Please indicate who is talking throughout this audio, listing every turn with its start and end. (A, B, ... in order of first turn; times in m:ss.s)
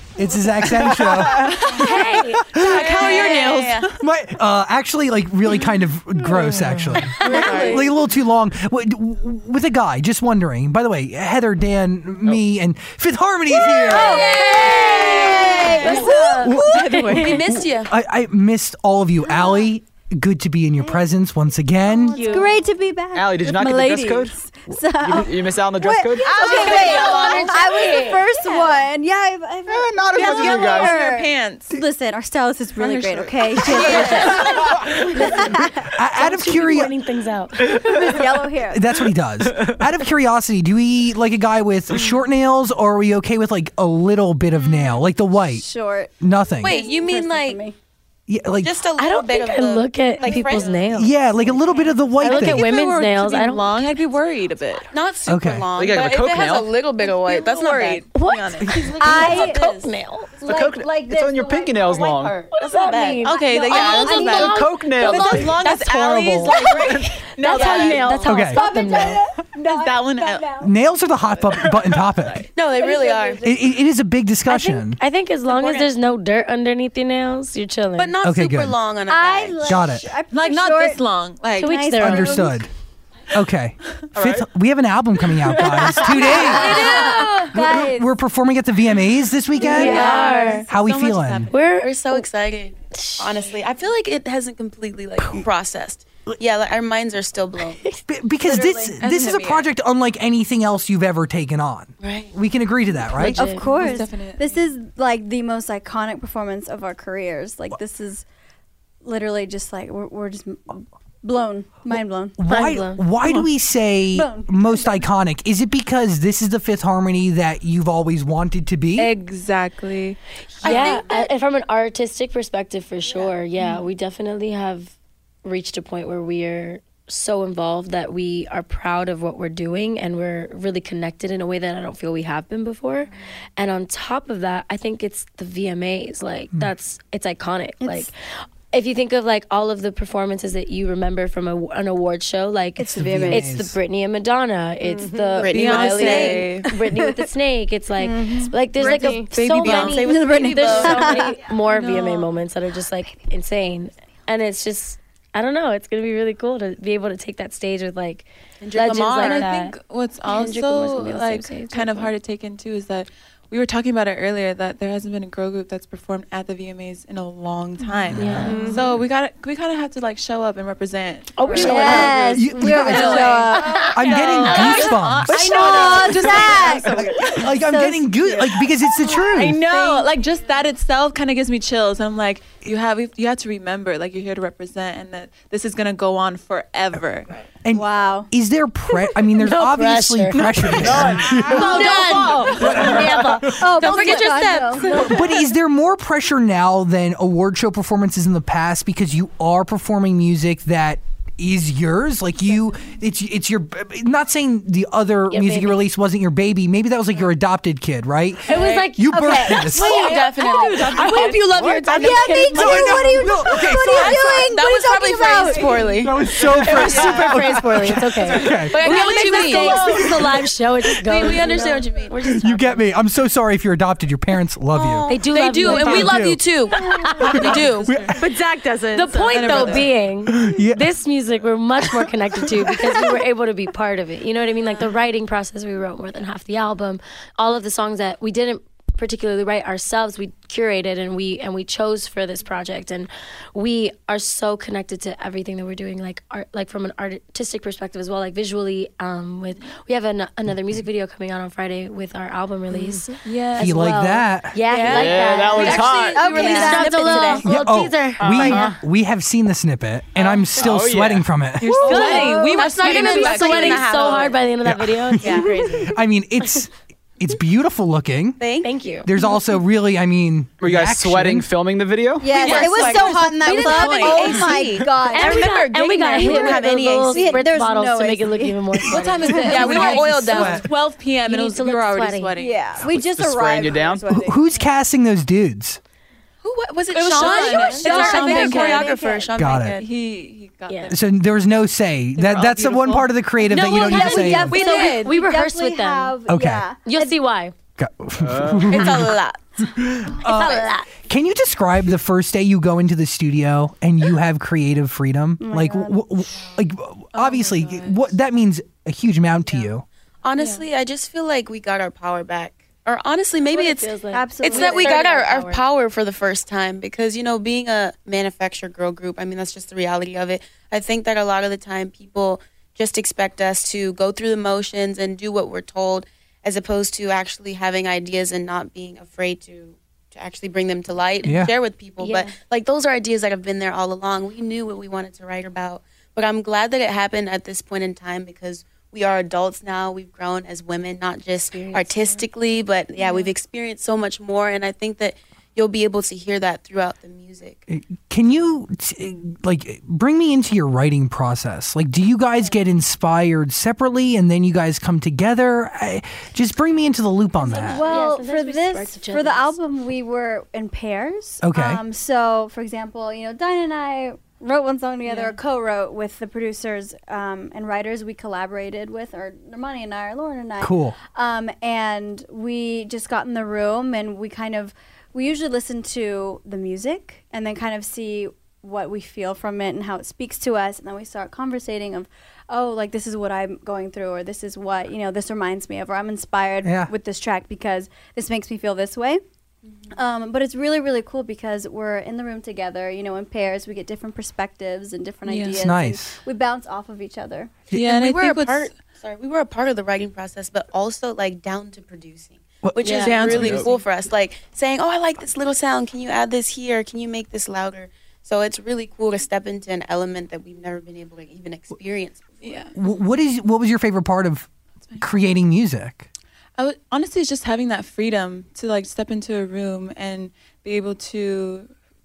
0:00.2-0:02.8 A
0:00.2-0:02.0 B
0:01.3-0:02.0 C
0:01.7-0:02.4 D
0:02.5-0:04.0 C
0:02.6-0:03.9 B
0:04.0-0:14.2 A
0:07.0-0:07.9 D
0:07.2-0:07.8 E
0:07.2-0:07.9 B
0:13.6-0:16.3 E
0:13.9-0:16.3 B
0:13.9-0:17.4 D
0:16.1-0:22.3 A
0:17.1-0:17.9 B
0:19.2-0:19.7 E
0:20.8-0:21.0 E
0:21.8-0:35.9 E
0:22.1-0:22.6 D
0:23.1-0:24.3 F
0:25.0-0:26.9 F
0:26.3-0:27.8 C
0:26.3-0:27.6 B
0:26.4-0:28.6 D
0:29.7-0:31.0 F
0:30.1-0:31.8 C
0:32.8-0:34.8 C
0:33.7-0:34.5 D
0:33.9-0:34.2 B
0:35.9-0:36.9 A
0:36.1-0:37.9 D
0:37.7-0:39.0 E
0:38.7-0:45.7 A
0:39.5-0:39.8 F
0:45.4-0:47.8 E
0:46.2-0:46.8 A
0:46.6-0:47.6 B
0:48.3-0:48.8 A
0:48.6-0:50.9 B
0:49.0-0:51.1 D
0:50.3-0:50.7 C
0:50.9-0:52.7 A
0:51.4-0:52.0 B
0:52.2-0:53.9 D
0:52.2-0:54.9 C
0:54.9-0:58.0 B
0:55.3-0:55.7 A
0:55.8-0:56.7 F
0:57.0-0:59.3 C
0:58.1-1:00.3 D
0:59.0-0:59.6 E
0:59.0-0:59.9 B
1:00.4-1:02.3 E
1:00.5-1:02.5 F
1:01.8-1:03.4 B
1:02.5-1:06.7 D
1:03.2-1:08.2 C
1:03.4-1:05.4 E
1:04.3-1:05.6 F
1:05.7-1:06.4 G
1:06.5-1:06.9 E
1:07.4-1:09.2 D
1:07.5-1:08.5 B
1:08.3-1:08.6 A
1:08.4-1:10.7 E
1:09.6-1:10.5 C
1:10.6-1:12.5 A
1:11.4-1:12.5 C
1:12.5-1:13.5 B
1:12.7-1:13.6 E
1:13.4-1:15.0 A
1:14.5-1:18.1 D
1:15.5-1:15.9 B
1:18.0-1:20.0 B
1:18.2-1:18.8 A
1:19.1-1:21.0 E
1:19.6-1:20.1 A
1:20.3-1:21.9 C
1:21.6-1:22.6 E
1:21.6-1:22.4 D
1:22.0-1:22.7 A
1:23.3-1:26.9 A
1:24.2-1:24.4 F
1:25.5-1:28.1 E
1:26.4-1:27.4 C
1:26.5-1:27.3 D
1:26.6-1:27.2 B
1:27.5-1:30.1 A
1:29.6-1:31.8 C
1:29.6-1:30.7 D
1:29.6-1:30.6 E
1:30.7-1:31.5 A
1:31.5-1:32.3 D
1:31.8-1:37.9 B
1:32.9-1:33.5 D
1:35.2-1:35.5 A
1:38.1-1:43.4 A
1:38.4-1:39.0 E
1:39.0-1:39.7 C
1:42.0-1:42.3 B
1:43.1-1:43.7 D
1:43.2-1:48.2 E
1:43.6-1:44.6 C
1:49.0-1:52.4 E
1:51.9-1:59.1 A
1:52.5-1:53.0 D
1:54.1-1:55.0 E
1:59.0-2:00.2 C
2:00.6-2:01.3 B
2:00.6-2:18.1 D
2:00.7-2:01.1 E
2:03.1-2:03.3 B
2:17.8-2:18.1 E
2:18.7-2:39.8 D
2:22.8-2:23.5 E
2:22.8-2:23.8 A
2:25.4-2:26.3 E
2:25.4-2:26.6 B
2:25.5-2:26.7 C
2:28.0-2:31.4 E
2:28.8-2:29.1 G
2:29.3-2:31.4 B
2:31.5-2:32.3 C
2:38.6-2:39.5 B
2:39.1-2:57.5 C
2:40.3-2:42.1 D
2:48.1-2:48.6 A
2:48.1-2:48.8 D
2:51.4-2:53.9 D
2:51.6-2:53.9 E
2:51.7-2:52.2 B
2:52.3-2:53.4 A
2:53.9-2:56.3 A
2:54.5-2:54.9 D
2:55.3-2:58.6 E
2:57.0-2:59.6 A
2:58.3-3:07.3 C
2:59.5-3:00.1 E
3:07.6-3:11.7 A
3:07.7-3:08.3 E
3:09.4-3:14.6 D
3:10.8-3:11.8 F
3:11.4-3:12.8 C
3:11.5-3:12.9 B
3:11.6-3:12.0 E
3:12.6-3:13.8 A
3:13.5-3:15.1 E
3:13.8-3:15.3 B
3:14.8-3:30.0 A
3:25.3-3:25.8 D
3:28.5-3:33.3 D
3:29.1-3:29.8 E
3:29.7-3:31.2 B
3:29.8-3:31.4 C
3:31.0-3:31.4 G
3:31.6-3:34.5 A
3:31.9-3:35.9 E
3:34.0-3:40.4 B
3:36.0-3:38.9 A
3:36.6-3:42.9 D
3:38.9-3:39.8 C
3:41.0-3:42.4 B
3:42.4-3:46.4 A
3:44.7-3:48.1 B
3:45.1-3:47.5 D
3:47.3-3:48.2 C
3:47.3-3:48.1 A
3:48.2-3:49.8 G
3:48.9-4:18.7 D
3:49.3-3:49.9 C
3:50.3-3:50.9 A
3:52.0-3:53.0 A
4:13.2-4:13.8 C
4:13.6-4:14.6 A
4:14.7-4:17.5 B
4:14.8-4:16.6 F
4:15.6-4:16.9 C
4:15.8-4:17.4 E
4:17.4-4:21.8 A
4:18.2-4:18.8 F
4:20.6-4:21.3 F
4:21.6-4:24.3 C
4:21.8-4:25.9 D
4:21.9-4:22.6 E
4:21.9-4:24.4 B
4:24.6-4:28.4 A
4:28.4-4:28.7 B
4:28.6-4:29.1 D
4:29.0-4:31.5 A
4:30.6-4:32.4 F
4:32.2-4:35.6 E
4:32.3-4:37.5 B
4:32.4-4:34.7 C
4:35.1-4:40.6 D
4:36.1-4:38.6 E
4:38.9-4:42.7 C
4:39.4-4:40.7 B
4:39.5-4:39.8 E
4:40.3-4:40.7 A
4:41.3-4:42.3 D
4:42.4-4:44.6 E
4:42.8-4:44.1 F
4:44.1-4:45.8 A
4:46.4-4:49.8 B
4:46.9-4:49.0 C
4:47.2-4:48.9 D
4:47.2-4:49.3 E
4:49.4-4:49.8 A
4:49.5-4:51.0 C
4:50.7-4:50.9 D
4:50.9-4:54.6 A
4:52.2-4:53.2 C
4:53.5-4:56.2 D
4:53.7-4:57.2 E
4:54.5-4:55.1 B
4:54.7-4:55.0 C
4:56.3-4:56.7 A
4:56.8-4:57.5 D
4:57.8-5:09.9 A
4:58.2-4:58.9 F
4:58.6-4:59.8 B
5:00.2-5:00.9 D
5:05.4-5:06.0 E
5:07.2-5:08.1 C
5:10.2-5:47.6 B
5:10.4-5:10.6 C
5:13.5-5:15.6 D
5:14.1-5:15.0 E
5:31.2-5:31.5 A
5:32.0-5:32.4 D
5:41.5-5:42.2 D
5:43.0-5:43.3 C
5:47.7-5:57.9 A
5:57.4-5:59.6 D
5:57.6-6:29.2 E
6:01.4-6:01.8 A
6:05.1-6:05.4 C
6:10.6-6:11.0 A
6:26.6-6:26.9 A
6:29.9-6:37.6 E
6:35.3-6:35.7 C
6:35.5-6:36.2 A
6:37.7-6:38.7 C
6:37.7-6:52.7 B
6:42.6-6:43.5 A
6:42.8-6:43.2 D
6:43.0-6:43.8 C
6:43.3-6:43.7 F
6:52.4-6:52.7 C
6:52.8-6:56.1 A
6:56.6-7:01.7 C